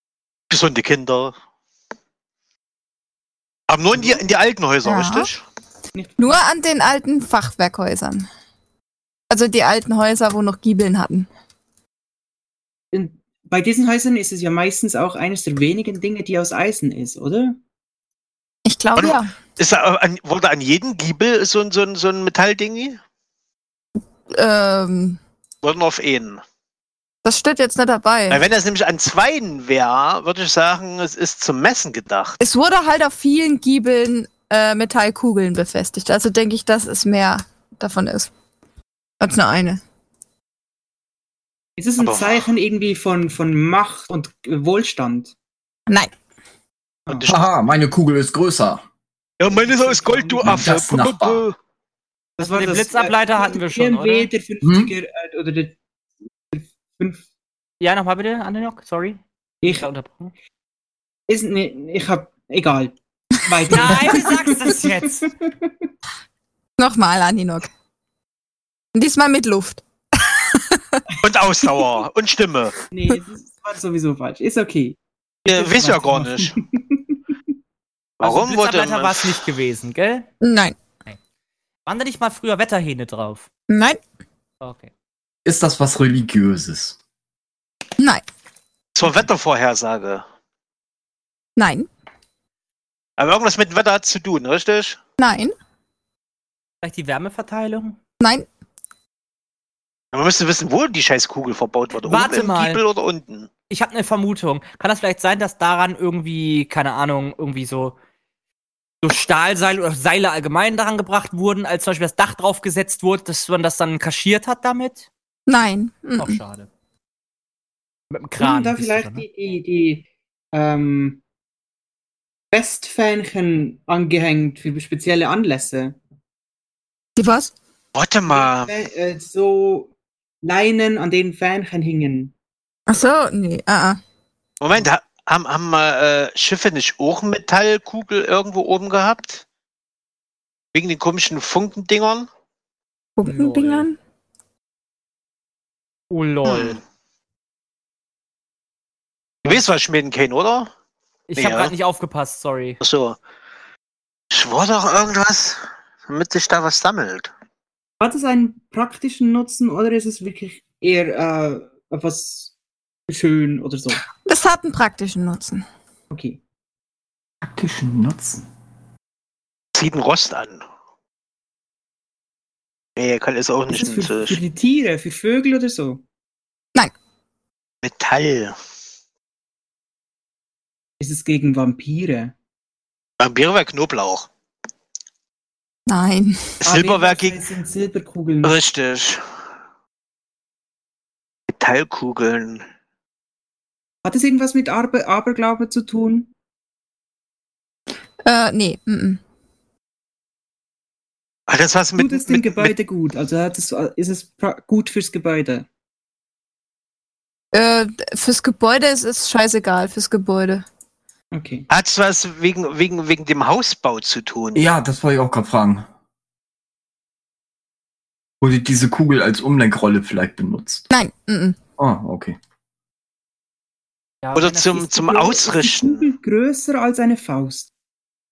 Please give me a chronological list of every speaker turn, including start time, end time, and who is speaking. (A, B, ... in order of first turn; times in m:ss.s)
0:00.5-0:01.3 A
0:03.7-0:05.4 A
0:04.8-0:05.3 B
0:05.9-0:06.4 C
0:06.2-0:08.3 B
0:09.3-0:11.3 B
0:12.9-0:17.6 C
0:18.6-0:19.3 B
0:19.0-0:23.0 A
0:24.3-0:25.2 B
0:25.6-0:26.4 A
0:27.2-0:28.4 B
0:28.3-0:32.4 A
0:32.4-0:38.3 B
0:39.2-0:39.8 B
0:41.8-0:45.3 C
0:42.0-0:42.4 A
0:47.2-0:48.8 D
0:49.4-0:51.6 A
0:50.0-0:50.5 C
0:50.4-0:51.4 D
0:52.4-0:55.8 C
0:52.4-0:54.3 E
0:54.6-0:54.9 D
0:56.5-0:57.2 C
0:57.8-1:00.3 E
0:59.6-0:59.9 C
1:01.3-1:05.7 C
1:03.7-1:05.3 E
1:06.8-1:07.7 B
1:08.9-1:11.0 B
1:11.2-1:12.8 A
1:12.9-1:17.3 C
1:15.4-1:16.5 A
1:18.2-1:19.4 A
1:18.2-1:20.3 E
1:20.4-1:20.8 B
1:21.8-1:23.5 E
1:23.7-1:24.0 B
1:24.6-1:24.9 E
1:25.4-1:27.0 D
1:28.9-1:30.2 A
1:31.6-1:31.9 B
1:33.2-1:35.0 A
1:35.2-1:35.5 B
1:36.8-1:38.0 E
1:38.2-1:38.5 B
1:40.1-1:43.5 A
1:42.0-1:42.8 E
1:43.7-1:48.0 E
1:49.0-1:55.1 E
1:55.5-1:56.4 B
1:56.2-1:56.7 E
1:58.1-1:59.2 E
1:58.4-2:01.2 C
2:02.5-2:06.0 C
2:07.2-2:07.5 B
2:07.9-2:08.7 A
2:08.3-2:12.3 C
2:12.9-2:14.0 B
2:14.6-2:19.4 A
2:20.7-2:22.3 A
2:23.2-2:24.0 B
2:23.2-2:23.8 E
2:26.1-2:26.8 E
2:26.4-2:26.8 A
2:29.4-2:30.7 A
2:31.3-2:32.8 E
2:31.4-2:31.7 A
2:32.8-2:33.2 A
2:34.3-2:37.3 A
2:38.0-2:42.5 C
2:43.1-2:44.0 C
2:44.2-2:45.6 B
2:46.1-2:46.4 C
2:47.4-2:48.4 D
2:49.7-2:50.6 A
2:53.0-2:54.4 A
2:53.7-2:56.0 C
2:57.8-2:58.6 A
3:01.0-3:02.3 C
3:03.2-3:04.3 A
3:05.9-3:06.4 B
3:06.6-3:08.6 C
3:06.6-3:07.4 A
3:08.4-3:09.2 A
3:11.5-3:12.6 A
3:14.0-3:16.3 C
3:18.2-3:19.2 B
3:21.5-3:22.7 A
3:22.0-3:25.7 C
3:27.5-3:30.6 B
3:31.3-3:31.6 C
3:31.7-3:34.6 A
3:34.5-3:35.8 D
3:38.4-3:40.8 D
3:40.9-3:41.6 B
3:41.8-3:42.4 D
3:44.2-3:45.1 E
3:44.3-3:46.1 A
3:45.0-3:47.7 C